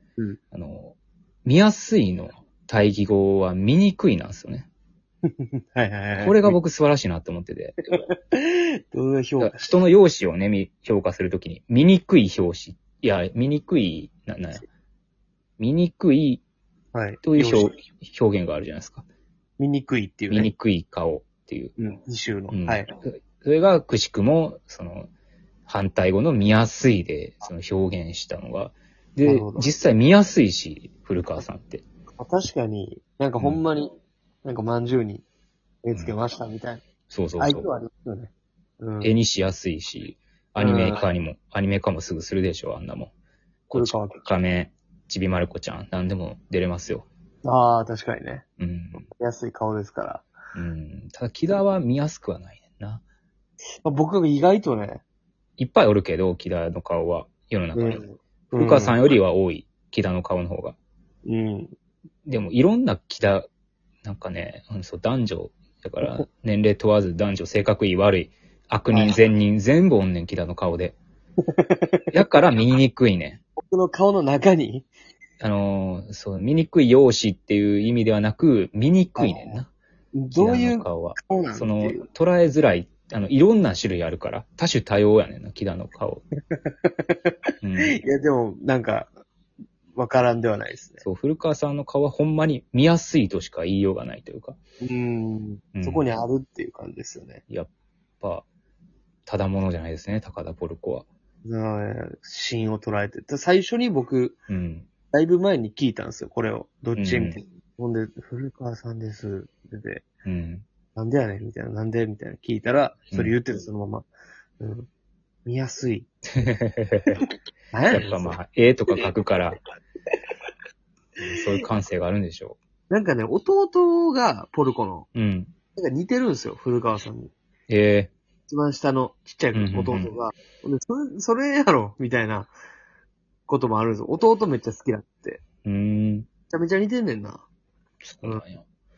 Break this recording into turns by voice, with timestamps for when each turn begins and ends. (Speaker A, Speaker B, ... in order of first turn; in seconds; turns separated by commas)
Speaker A: 0.5-4.7, Speaker B: 5.3-6.6, Speaker A: 6.2-7.8, Speaker B: 7.9-9.8, Speaker A: 9.4-14.6, Speaker A: 15.6-16.4, Speaker B: 16.9-17.7, Speaker A: 17.2-19.0, Speaker B: 19.6-20.5, Speaker A: 20.3-21.7, Speaker B: 21.8-22.9, Speaker A: 22.5-25.1, Speaker A: 25.7-31.8, Speaker B: 29.2-29.7, Speaker B: 32.2-33.9, Speaker B: 34.4-35.2, Speaker B: 35.8-36.8, Speaker A: 37.1-37.7, Speaker B: 37.4-39.1, Speaker A: 39.0-43.1, Speaker B: 40.6-41.0, Speaker A: 43.7-47.1, Speaker B: 43.7-44.2, Speaker B: 47.4-48.5, Speaker A: 48.6-49.1, Speaker B: 49.1-50.3, Speaker A: 50.5-53.0, Speaker B: 53.8-55.0, Speaker A: 55.6-58.0, Speaker B: 57.8-59.0, Speaker A: 58.5-60.8, Speaker B: 61.3-61.7, Speaker A: 62.2-63.5, Speaker A: 64.0-71.0, Speaker B: 68.9-69.2, Speaker B: 71.5-72.0, Speaker A: 72.1-73.4, Speaker B: 73.6-74.9, Speaker A: 75.4-79.7, Speaker B: 79.2-79.6, Speaker B: 80.2-82.0, Speaker A: 80.3-86.2, Speaker B: 86.5-89.1, Speaker A: 87.6-88.0, Speaker B: 90.0-91.0, Speaker A: 91.0-94.6, Speaker B: 94.8-97.4, Speaker A: 95.8-96.1, Speaker A: 97.5-98.5, Speaker A: 99.3-101.1, Speaker B: 101.5-104.4, Speaker A: 104.5-104.9, Speaker B: 105.1-110.0, Speaker A: 107.0-107.4, Speaker A: 110.2-110.7, Speaker B: 111.0-114.1, Speaker B: 114.6-114.9, Speaker B: 115.5-116.1, Speaker A: 116.4-117.2, Speaker B: 117.2-118.4, Speaker A: 117.9-119.6, Speaker A: 121.2-122.6, Speaker B: 122.9-125.1, Speaker A: 125.2-125.5, Speaker B: 125.8-127.3, Speaker A: 127.7-128.1, Speaker B: 128.5-132.5, Speaker A: 129.5-130.1, Speaker B: 133.5-135.4, Speaker A: 135.7-136.3, Speaker B: 136.5-137.5, Speaker A: 138.0-138.6